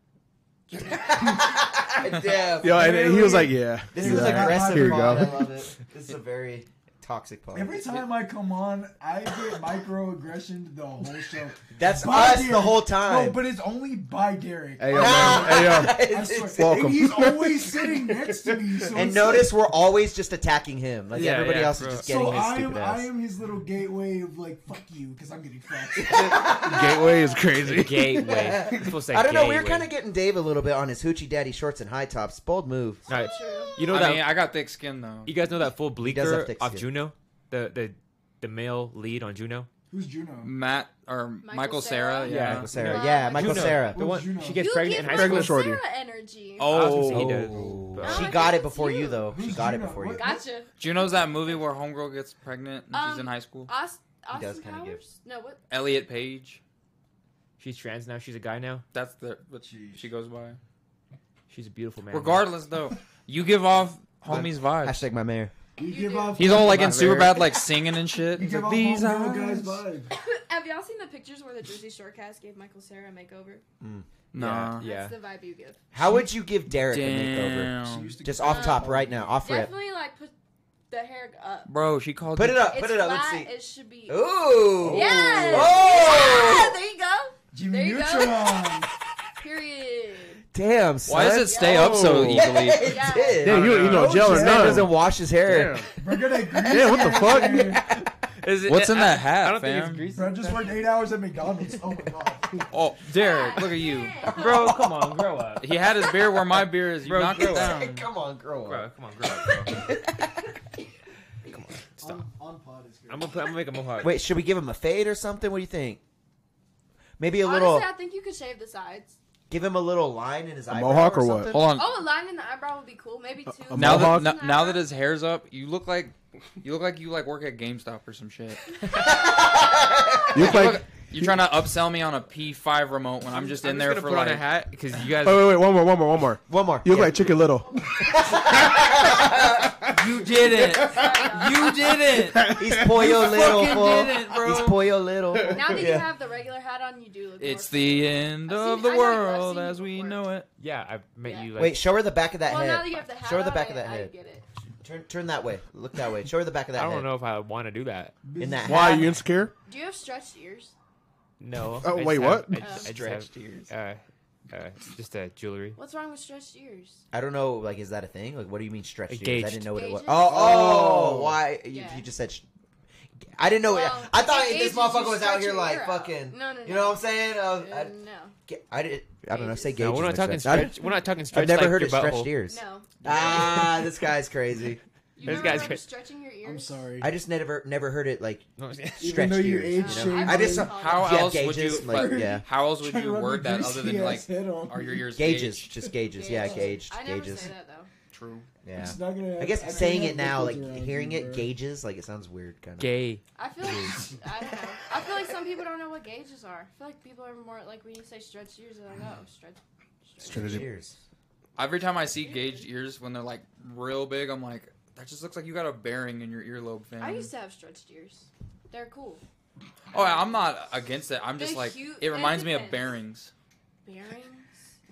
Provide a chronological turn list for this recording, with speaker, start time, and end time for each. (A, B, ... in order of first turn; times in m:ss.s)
0:00.8-0:08.0 A
0:02.6-0:05.5 B
0:02.6-0:05.4 C
0:07.5-0:19.5 C
0:11.7-0:13.4 A
0:14.8-0:19.0 B
0:14.9-0:16.8 A
0:18.9-0:23.1 A
0:21.1-0:22.5 D
0:21.2-0:21.6 B
0:21.9-0:27.1 C
0:26.1-0:29.0 B
0:26.2-0:26.9 A
0:27.6-0:29.9 D
0:28.3-0:33.1 A
0:33.1-0:33.9 E
0:33.1-0:34.4 D
0:33.9-0:35.3 F
0:35.3-0:39.7 D
0:36.0-0:36.9 A
0:39.9-0:40.5 C
0:40.4-0:42.7 F
0:41.4-0:43.9 E
0:42.2-0:45.6 D
0:42.4-0:44.3 A
0:43.8-0:44.7 C
0:44.6-0:46.7 E
0:44.9-0:45.8 B
0:46.6-0:47.4 F
0:46.6-0:48.5 D
0:46.8-0:48.0 B
0:47.2-0:50.2 A
0:48.0-0:49.3 E
0:49.3-0:50.4 C
0:50.2-0:51.7 E
0:50.8-0:53.7 F
0:52.9-0:55.6 E
0:54.3-0:55.0 A
0:55.7-0:56.6 F
0:57.6-0:58.8 D
0:58.9-1:00.6 F
0:59.6-1:00.1 C
1:01.5-1:02.5 D
1:02.1-1:05.0 F
1:04.3-1:05.5 A
1:05.8-1:10.1 C
1:05.9-1:06.4 E
1:06.4-1:09.8 F
1:10.1-1:13.6 E
1:13.8-1:14.8 A
1:14.3-1:14.8 F
1:14.8-1:15.2 D
1:14.8-1:15.8 E
1:15.9-1:19.7 A
1:16.0-1:16.3 C
1:16.9-1:18.2 F
1:17.8-1:19.4 C
1:18.4-1:18.9 E
1:19.4-1:20.3 E
1:20.9-1:21.7 E
1:21.7-1:22.6 F
1:22.3-1:23.5 A
1:22.7-1:28.7 E
1:24.1-1:26.8 A
1:24.8-1:25.6 B
1:24.9-1:25.3 C
1:27.5-1:28.9 C
1:29.4-1:30.4 E
1:30.5-1:35.9 A
1:31.1-1:34.2 F
1:31.5-1:31.8 E
1:31.6-1:32.5 B
1:32.7-1:33.4 E
1:33.4-1:35.9 B
1:33.7-1:34.9 C
1:35.9-1:37.9 C
1:36.6-1:37.8 B
1:37.5-1:40.8 D
1:38.6-1:40.0 F
1:40.1-1:42.7 C
1:42.7-1:44.3 F
1:43.1-1:43.6 D
1:43.1-1:44.8 E
1:44.2-1:45.8 D
1:45.6-1:48.1 F
1:47.1-1:48.9 A
1:47.3-1:47.7 D
1:48.7-1:49.9 D
1:49.6-1:50.4 A
1:51.5-1:52.2 D
1:52.0-1:53.5 C
1:53.1-1:54.2 D
1:54.0-1:56.0 A
1:57.2-1:57.9 A
1:57.4-1:59.2 E
1:59.5-2:01.5 A
2:00.7-2:01.6 B
2:01.5-2:01.9 F
2:01.5-2:04.8 E
2:03.6-2:04.4 B
2:03.7-2:08.6 F
2:09.0-2:10.4 A
2:10.3-2:11.4 B
2:10.4-2:14.5 F
2:13.3-2:15.5 D
2:15.1-2:18.0 B
2:16.5-2:17.4 A
2:17.7-2:19.2 E
2:17.9-2:19.8 A
2:19.9-2:22.6 F
2:20.8-2:21.7 E
2:20.8-2:21.1 B
2:21.9-2:24.2 B
2:22.5-2:26.1 A
2:23.2-2:24.9 F
2:25.4-2:30.2 E
2:27.4-2:30.5 F
2:30.6-2:31.8 D
2:31.2-2:31.5 E
2:31.6-2:34.1 A
2:32.4-2:34.4 E
2:34.8-2:37.1 A
2:36.7-2:38.2 D
2:38.2-2:38.9 C
2:38.4-2:39.1 A
2:38.6-2:39.5 B
2:39.6-2:40.7 E
2:41.4-2:45.8 D
2:41.8-2:42.7 B
2:42.6-2:42.9 E
2:42.8-2:43.7 A
2:45.8-2:47.0 E
2:47.1-2:52.4 A
2:49.1-2:49.7 D
2:49.7-2:50.4 E
2:50.2-2:51.3 B
2:50.5-2:51.0 C
2:51.7-2:52.0 E
2:53.4-2:57.9 A
2:53.6-2:58.4 E
2:58.5-3:00.8 A
2:59.3-2:59.8 E
2:59.8-3:02.4 D
3:01.3-3:04.8 A
3:02.5-3:03.8 E
3:05.2-3:06.8 E
3:05.2-3:05.8 D
3:05.3-3:05.6 A
3:06.4-3:07.1 C
3:07.0-3:12.4 A
3:08.6-3:09.3 D
3:09.0-3:10.7 C
3:09.7-3:11.2 E
3:10.7-3:15.7 F
3:11.6-3:15.1 C
3:15.2-3:17.5 A
3:15.8-3:16.8 C
3:16.2-3:17.9 E
3:18.1-3:18.4 F
3:18.6-3:23.0 A
3:18.8-3:21.5 C
3:22.8-3:23.2 D
3:23.4-3:30.7 E
3:30.2-3:30.7 B
3:30.2-3:31.0 A
3:31.6-3:37.3 F
3:32.2-3:32.6 E
3:37.0-3:39.2 E
3:39.9-3:43.3 F
3:39.9-3:40.4 E
3:41.4-3:43.0 E
3:43.8-3:44.5 E